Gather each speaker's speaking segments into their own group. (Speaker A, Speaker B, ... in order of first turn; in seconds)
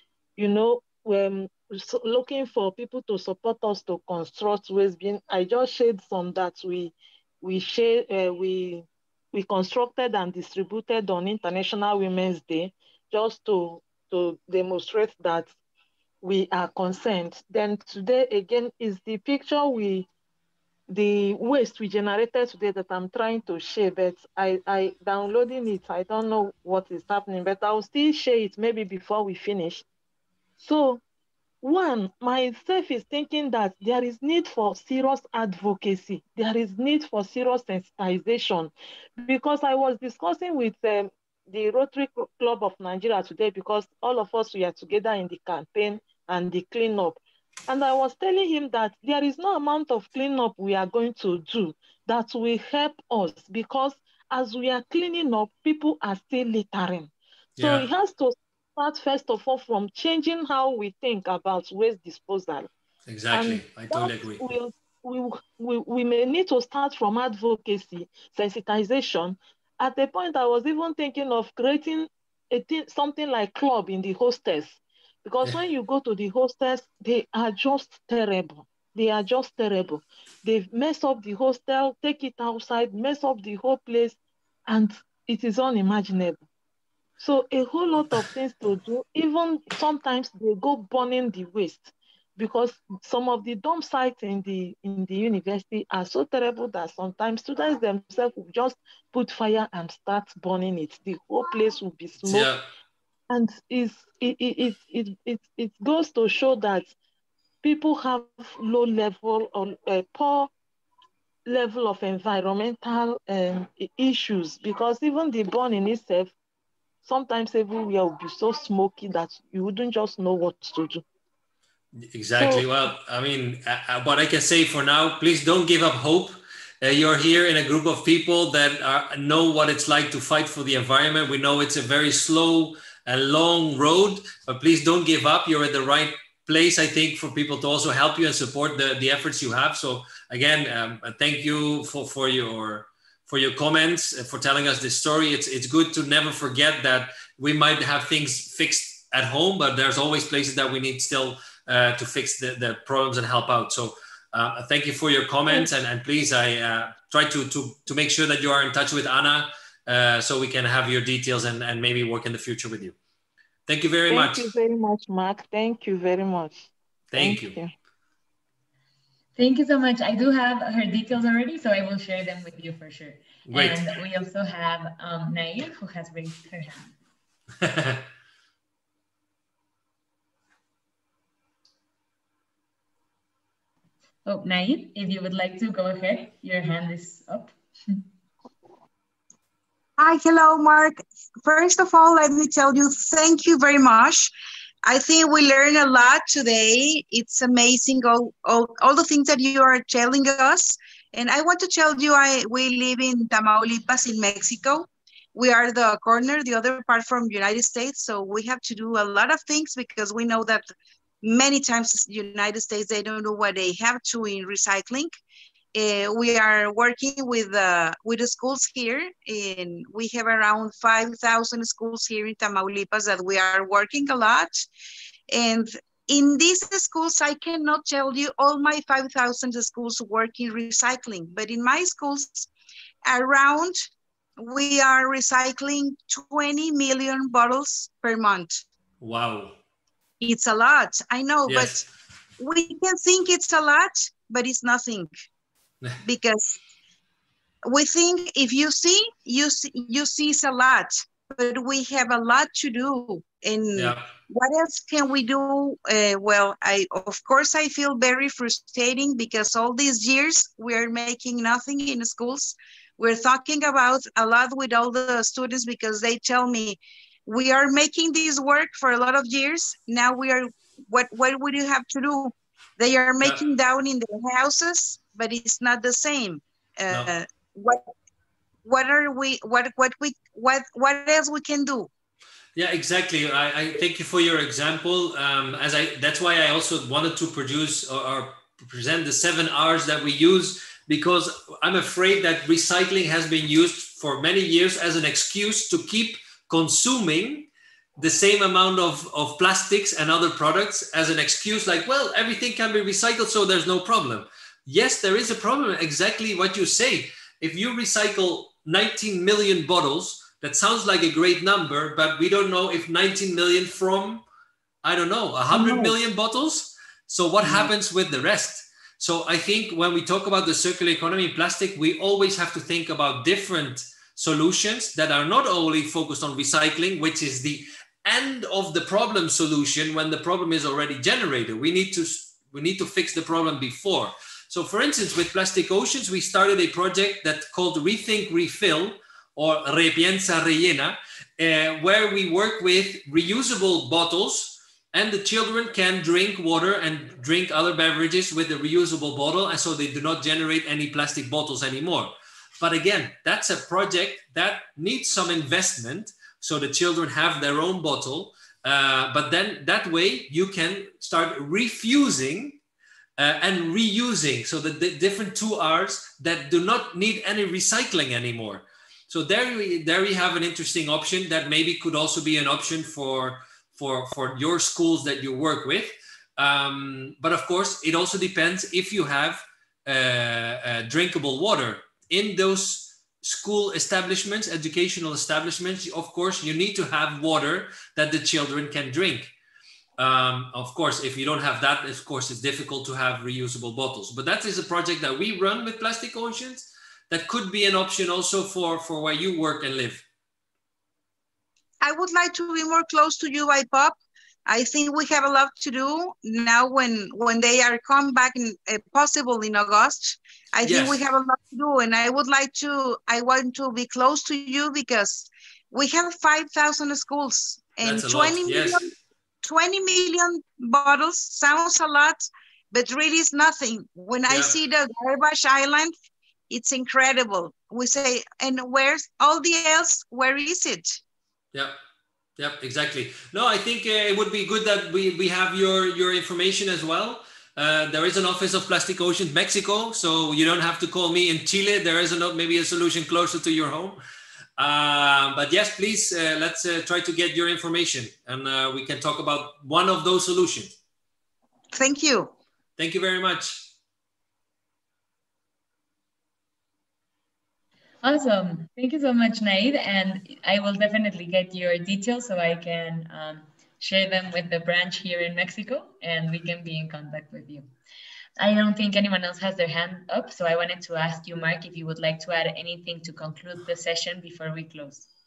Speaker A: 0.3-15.5, 16.2-20.1, 20.9-29.8, 30.6-31.0, 31.6-62.7, 63.3-86.5, 87.2-102.5, 103.3-106.9, 107.6-110.5, 111.5-116.3, 117.0-121.0, 122.4-122.7, 164.1-167.7, 315.5-315.9
Speaker B: 57.6-57.9, 63.1-64.4, 102.2-102.6, 122.0-162.9, 163.7-164.5, 167.1-167.6, 173.5-173.8, 177.6-178.0, 239.0-239.6, 241.5-241.9, 253.7-254.1, 282.6-314.2, 314.8-362.6, 363.2-389.3, 390.0-400.0, 410.6-411.0, 417.8-418.9, 424.3-424.6, 432.4-444.0, 444.6-450.8, 452.8-453.7
Speaker C: 169.3-176.9, 184.2-188.0, 458.0-467.7, 468.4-475.1
Speaker D: 190.0-194.3, 194.8-210.7, 211.2-215.1, 215.7-224.6, 225.3-232.5, 233.0-233.9, 234.4-238.6, 240.2-241.8, 242.4-245.1, 246.0-246.6, 247.7-277.9, 278.6-281.9, 401.8-418.9, 419.4-425.9, 426.5-431.0, 451.7-452.3